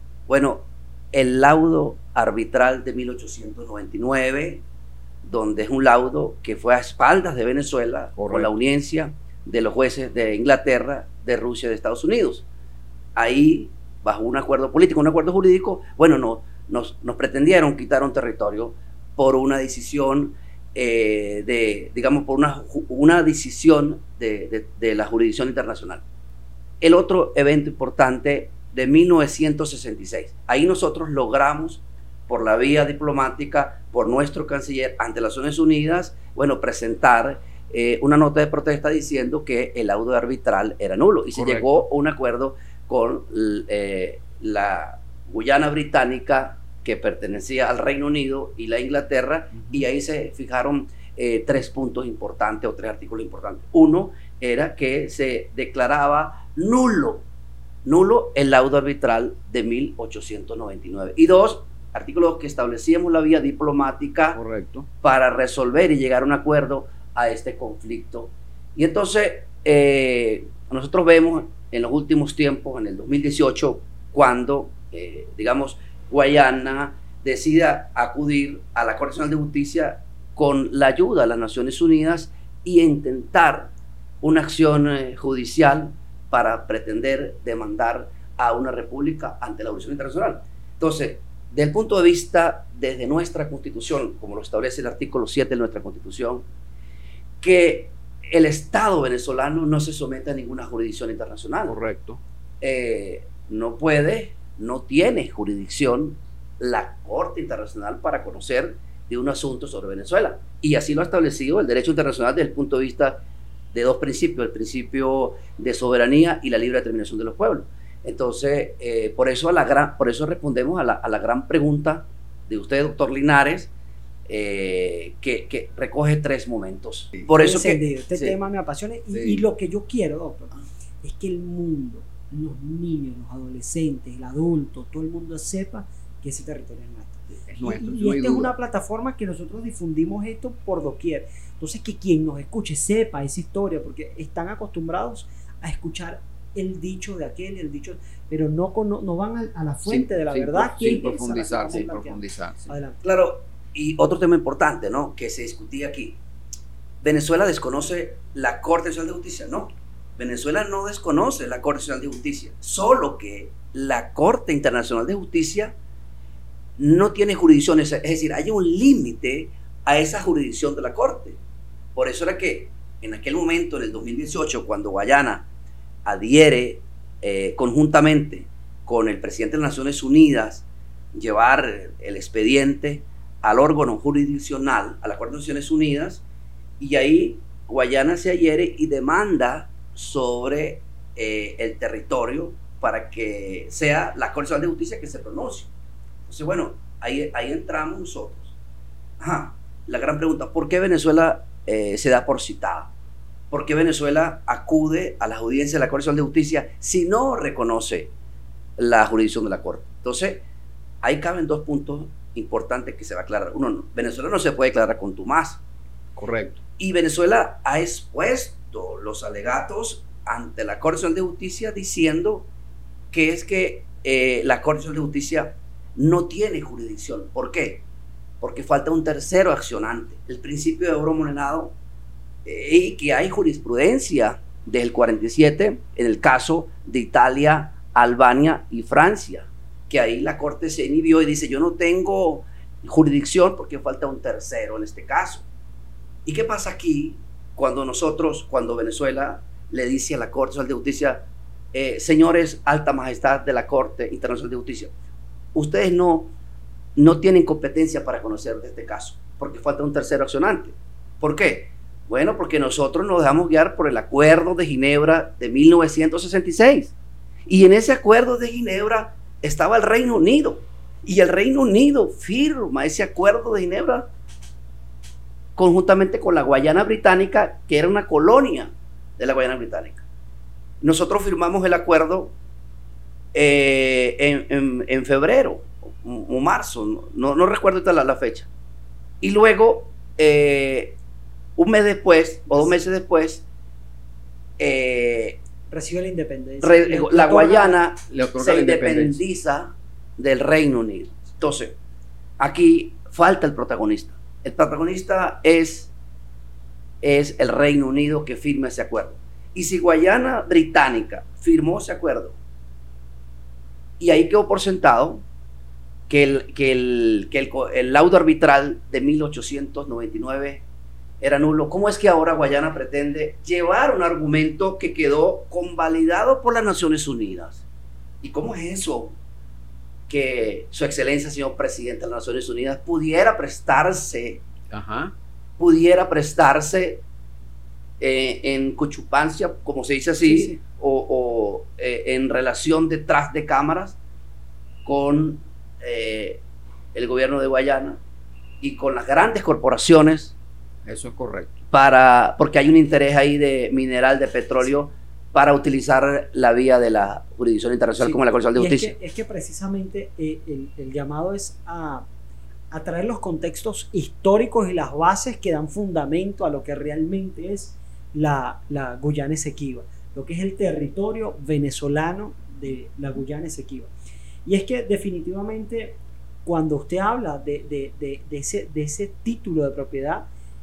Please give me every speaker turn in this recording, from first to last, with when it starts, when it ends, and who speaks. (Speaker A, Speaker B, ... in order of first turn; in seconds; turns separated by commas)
Speaker A: 0.3-4.6, Speaker A: 5.2-12.4, Speaker B: 8.2-8.5, Speaker A: 13.1-26.0, Speaker A: 26.8-57.2, Speaker B: 41.3-41.8, Speaker A: 57.8-64.4, Speaker B: 64.3-64.9, Speaker A: 65.0-96.4, Speaker A: 97.4-101.8, Speaker B: 101.7-102.2, Speaker A: 102.6-113.2, Speaker A: 113.7-123.7, Speaker A: 124.3-128.3, Speaker C: 127.3-153.0, Speaker B: 129.1-129.4, Speaker B: 137.5-138.5, Speaker B: 149.8-152.7, Speaker A: 153.0-156.2, Speaker A: 157.0-165.7, Speaker A: 166.8-171.4, Speaker A: 171.9-175.5, Speaker A: 176.0-186.2, Speaker A: 186.8-195.7, Speaker A: 196.2-198.5, Speaker A: 199.2-202.9, Speaker A: 203.5-208.1, Speaker A: 208.8-210.4, Speaker A: 211.0-215.6, Speaker B: 216.2-216.6, Speaker A: 216.8-222.5, Speaker A: 223.1-227.8, Speaker A: 228.4-231.7, Speaker A: 232.4-245.4, Speaker A: 246.2-254.9, Speaker A: 255.5-256.3, Speaker A: 256.9-266.9, Speaker A: 267.4-274.1, Speaker A: 275.6-280.0, Speaker A: 280.8-282.3, Speaker A: 283.3-288.5, Speaker A: 289.2-291.0, Speaker A: 291.6-293.4, Speaker A: 294.6-295.4, Speaker C: 295.7-297.8, Speaker A: 296.6-301.8, Speaker B: 298.1-299.2, Speaker A: 302.4-305.9, Speaker A: 307.0-312.4, Speaker A: 314.0-315.2, Speaker A: 316.1-320.6, Speaker A: 321.2-327.6, Speaker A: 328.2-329.1, Speaker A: 330.1-334.4, Speaker B: 334.7-335.1, Speaker A: 335.6-337.0, Speaker A: 338.0-344.0, Speaker C: 340.3-340.6, Speaker A: 344.8-346.4, Speaker A: 346.9-348.0, Speaker A: 348.6-350.3, Speaker B: 350.9-351.6, Speaker A: 351.7-358.9, Speaker C: 358.0-362.1, Speaker C: 362.7-373.9, Speaker C: 374.4-380.2